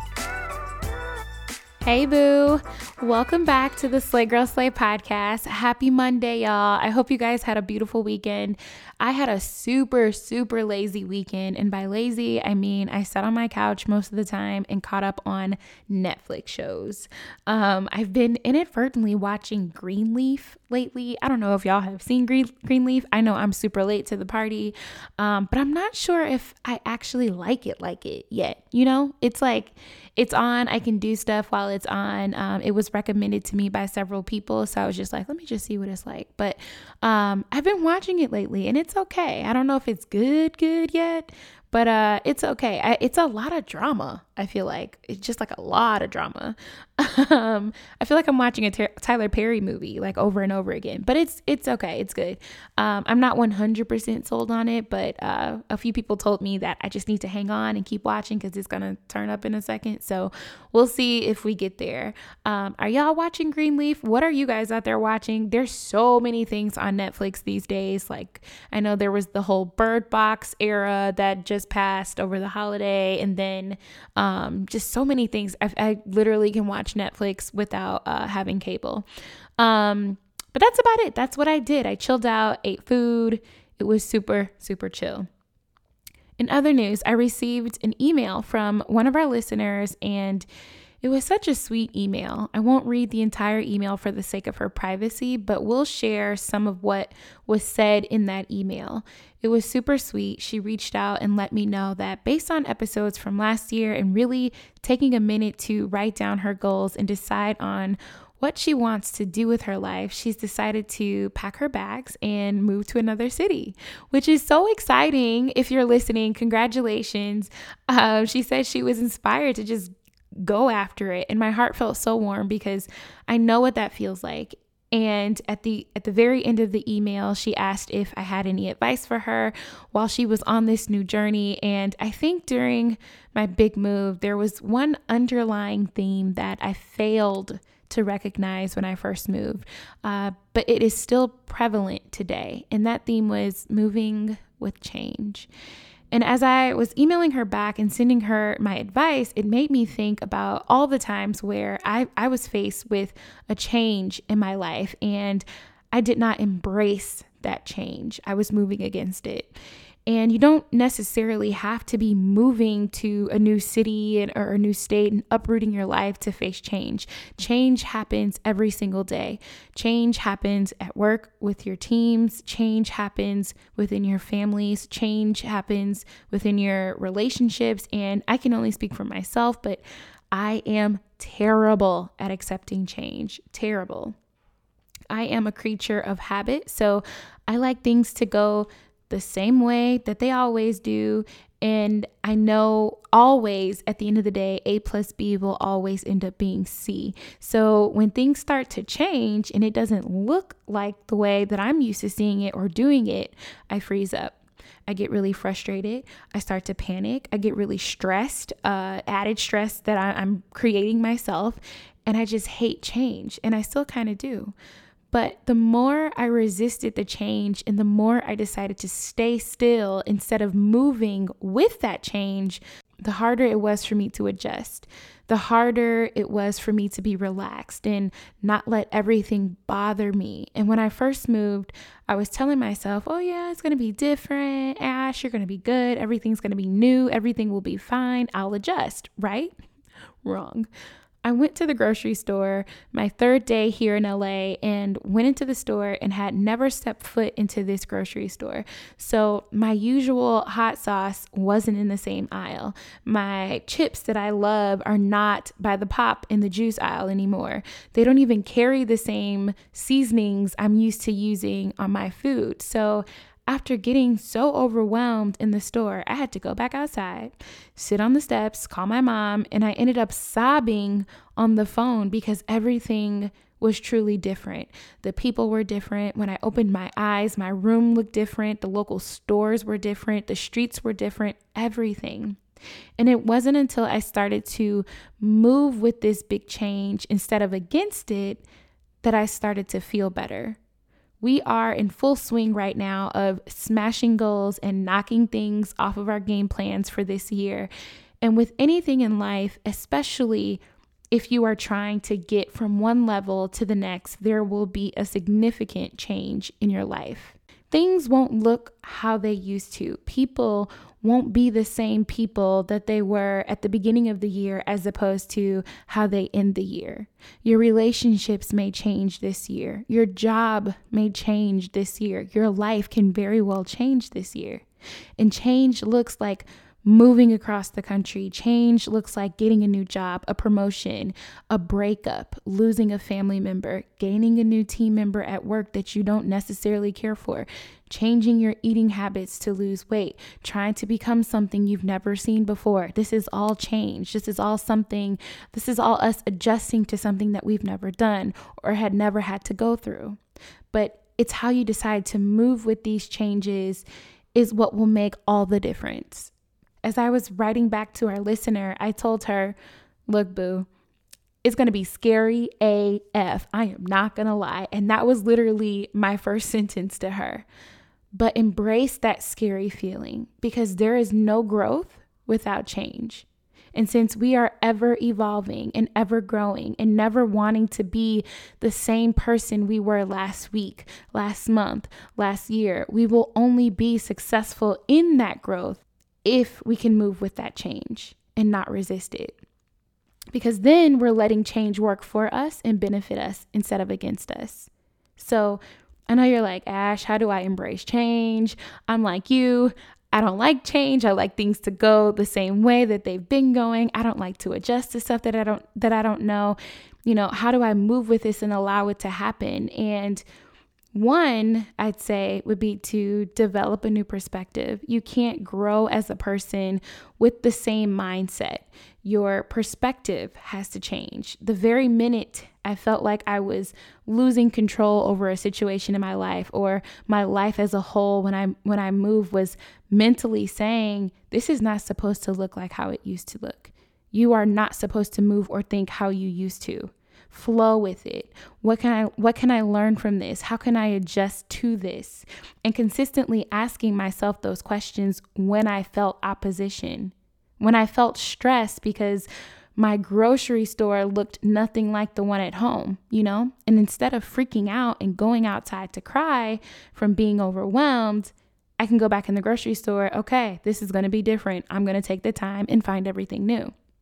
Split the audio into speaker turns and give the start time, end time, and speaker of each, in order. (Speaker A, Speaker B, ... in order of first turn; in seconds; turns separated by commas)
Speaker A: 1.8-79.0, Speaker A: 79.6-85.3, Speaker A: 86.4-90.5, Speaker A: 91.0-119.9, Speaker A: 120.4-145.5, Speaker A: 146.1-184.2, Speaker A: 185.1-214.5, Speaker A: 215.1-239.5, Speaker A: 240.2-240.7, Speaker A: 241.2-282.4, Speaker A: 283.0-288.4, Speaker A: 289.0-290.6, Speaker A: 291.2-297.7, Speaker A: 298.2-324.6, Speaker A: 325.2-350.2, Speaker A: 350.7-356.3, Speaker A: 356.8-359.6, Speaker A: 360.1-360.7, Speaker A: 361.4-367.4, Speaker A: 368.1-389.4, Speaker A: 390.3-410.2, Speaker A: 410.9-463.7